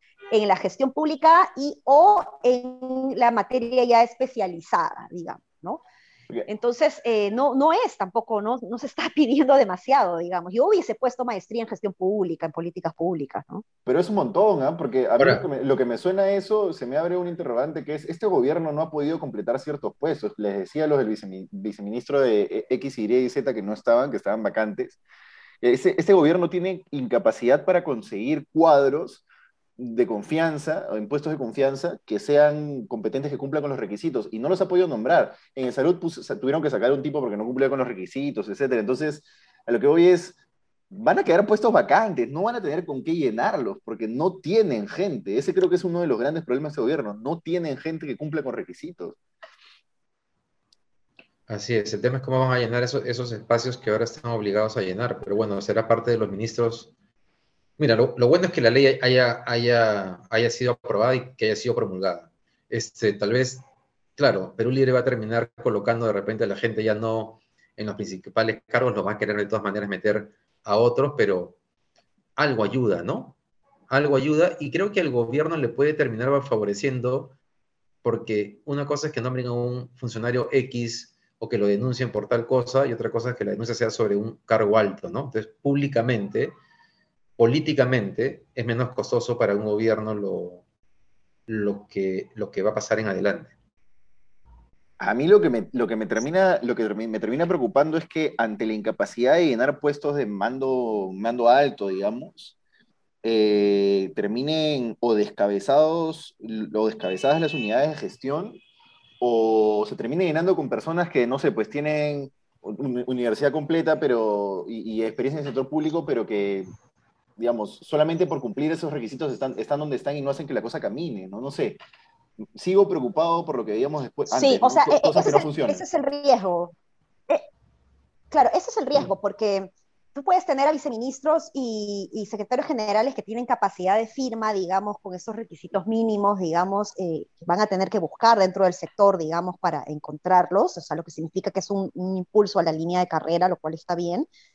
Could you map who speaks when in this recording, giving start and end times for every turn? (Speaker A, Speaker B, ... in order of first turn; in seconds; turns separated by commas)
Speaker A: 0.3-5.8, Speaker A: 6.5-13.6, Speaker B: 13.8-25.0, Speaker C: 15.2-15.4, Speaker B: 25.6-29.2, Speaker B: 29.8-40.4, Speaker B: 40.9-49.2, Speaker C: 51.5-56.9, Speaker C: 57.8-63.6, Speaker C: 64.2-71.6, Speaker C: 72.4-73.3, Speaker C: 73.9-77.3, Speaker C: 78.0-86.5, Speaker C: 87.4-90.6, Speaker C: 91.5-93.5, Speaker B: 95.0-102.6, Speaker B: 103.2-108.6, Speaker B: 109.2-116.7, Speaker B: 117.4-121.8, Speaker B: 122.5-125.8, Speaker A: 124.3-126.7, Speaker A: 128.3-144.3